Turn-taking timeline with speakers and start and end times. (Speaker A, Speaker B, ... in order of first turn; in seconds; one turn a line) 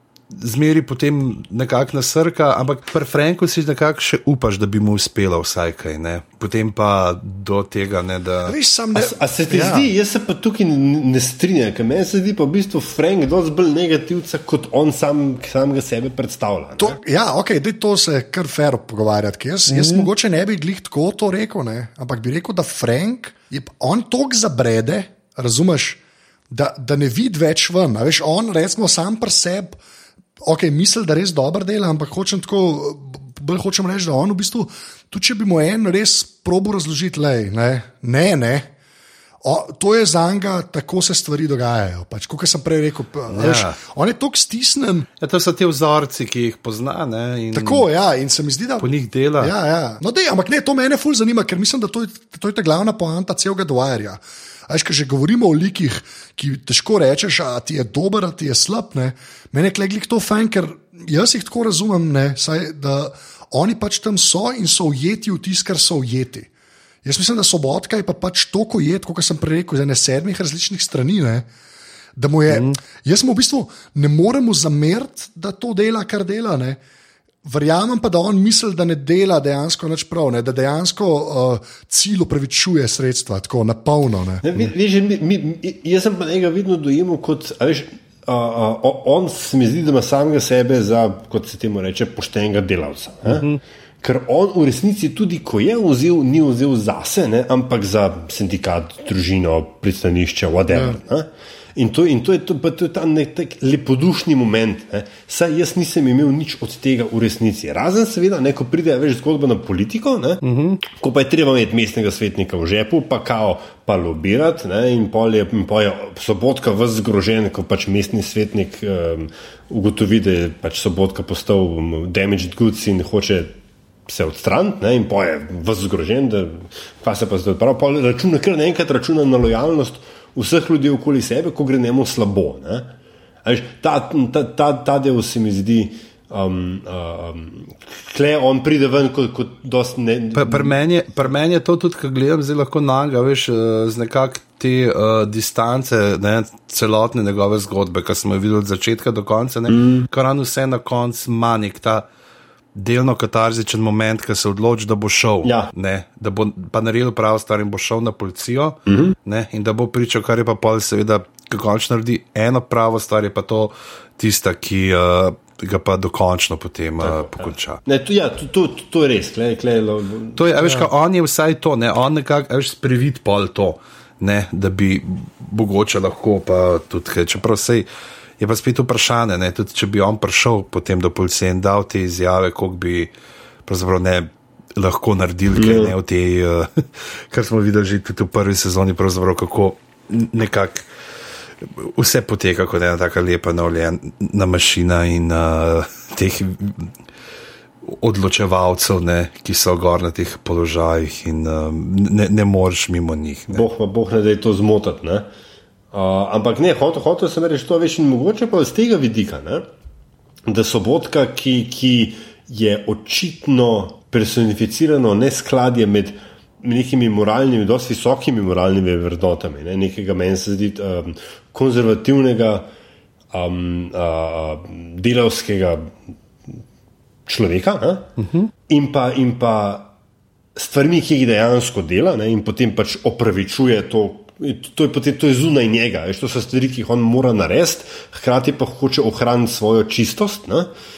Speaker A: 0.3-8.6
Speaker B: 8.4-9.9
Speaker C: 8.9-17.0
Speaker B: 16.8-29.8
Speaker B: 30.4-38.7
Speaker B: 39.4-45.1
Speaker A: 43.3-43.8
Speaker A: 45.2-47.9
Speaker B: 47.5-48.9
Speaker A: 48.8-49.5
Speaker B: 49.4-66.5
Speaker B: 67.0-71.5
Speaker B: 72.2-76.8
Speaker A: 72.5-72.8
Speaker B: 77.4-84.5
Speaker C: 84.4-93.5
Speaker A: 93.3-93.6
Speaker C: 94.0-123.5
Speaker B: 100.7-101.0
Speaker A: 110.4-110.8
Speaker C: 124.1-132.9
Speaker C: 133.4-140.8
Speaker A: 140.3-152.1
Speaker C: 149.7-150.1
Speaker A: 152.8-167.8
Speaker C: 155.4-155.7
Speaker C: 158.9-159.2
Speaker C: 167.0-170.5
Speaker A: 170.4-177.9
Speaker A: 178.4-183.1
Speaker A: 183.7-190.9
Speaker C: 185.6-185.9
Speaker A: 191.6-196.9
Speaker A: 197.8-203.6
Speaker C: 203.5-205.3
Speaker C: 205.9-209.7
Speaker C: 210.5-222.7
Speaker C: 223.3-226.0
Speaker C: 227.3-228.1
Speaker A: 228.2-228.5
Speaker C: 228.7-229.9
Speaker C: 230.6-240.7